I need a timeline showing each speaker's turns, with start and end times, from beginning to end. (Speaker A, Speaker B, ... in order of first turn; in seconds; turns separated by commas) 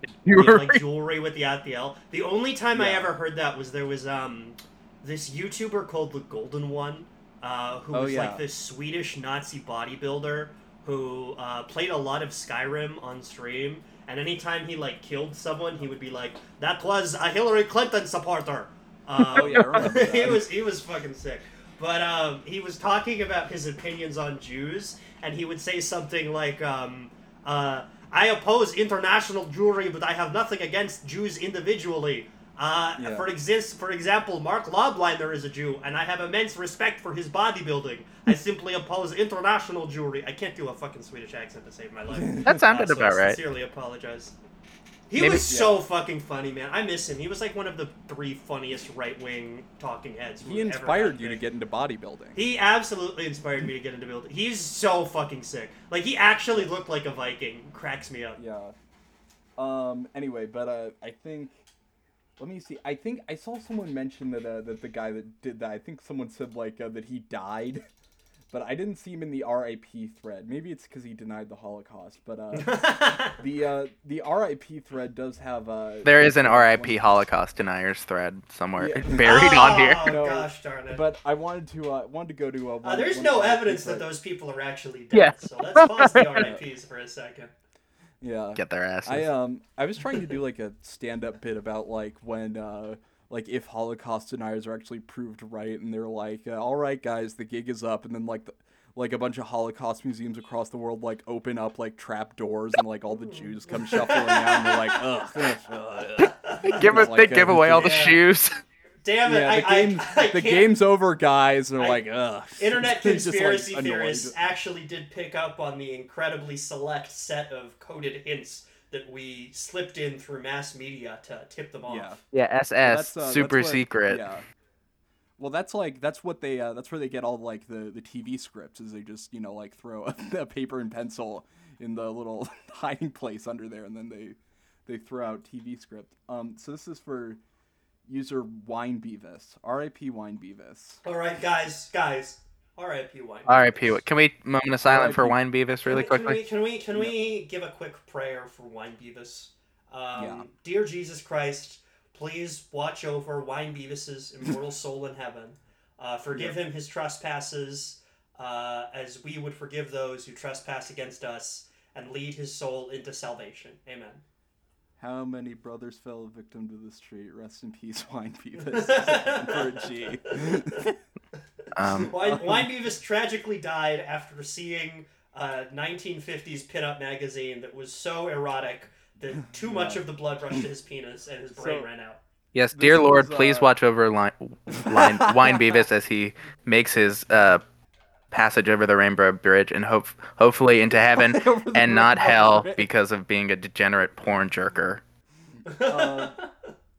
Speaker A: 0.2-0.8, Speaker B: 0.3-44.3, Speaker C: 2.7-3.1, Speaker C: 7.9-8.4, Speaker C: 19.3-20.4, Speaker A: 19.4-19.8, Speaker C: 33.0-33.3, Speaker C: 42.1-42.6, Speaker A: 42.4-43.4, Speaker B: 45.1-51.4, Speaker A: 45.2-45.5, Speaker C: 45.5-45.8, Speaker C: 50.4-52.4, Speaker B: 52.4-58.4, Speaker C: 58.4-58.7, Speaker C: 59.6-61.6, Speaker C: 62.4-67.8, Speaker C: 68.5-77.0, Speaker B: 72.5-73.4, Speaker A: 76.0-80.1, Speaker C: 78.8-79.3, Speaker B: 79.2-81.0, Speaker C: 80.0-84.1, Speaker B: 82.8-87.5, Speaker A: 85.1-86.5, Speaker C: 86.3-86.6, Speaker C: 88.2-108.1, Speaker A: 88.6-89.3, Speaker B: 103.1-105.0, Speaker A: 106.2-108.5, Speaker B: 106.3-106.8, Speaker B: 107.8-108.2, Speaker B: 109.0-110.8, Speaker C: 109.2-114.4, Speaker B: 111.8-112.0, Speaker B: 112.6-122.2, Speaker C: 121.9-122.2, Speaker A: 122.3-124.2, Speaker C: 122.8-124.5, Speaker C: 125.4-137.4, Speaker C: 138.1-141.0, Speaker B: 141.0-143.9, Speaker A: 143.5-146.4, Speaker C: 144.8-145.4, Speaker B: 145.9-164.2, Speaker C: 150.2-150.5, Speaker C: 156.3-156.6, Speaker C: 165.0-171.0, Speaker B: 168.6-170.9, Speaker B: 171.6-182.2, Speaker A: 171.8-172.1, Speaker C: 172.2-172.7, Speaker C: 179.5-180.0, Speaker C: 181.5-181.9, Speaker A: 182.5-187.6, Speaker C: 182.7-183.7, Speaker C: 184.7-185.8, Speaker A: 188.3-195.0, Speaker C: 191.1-192.9, Speaker B: 195.7-196.5, Speaker C: 195.8-196.4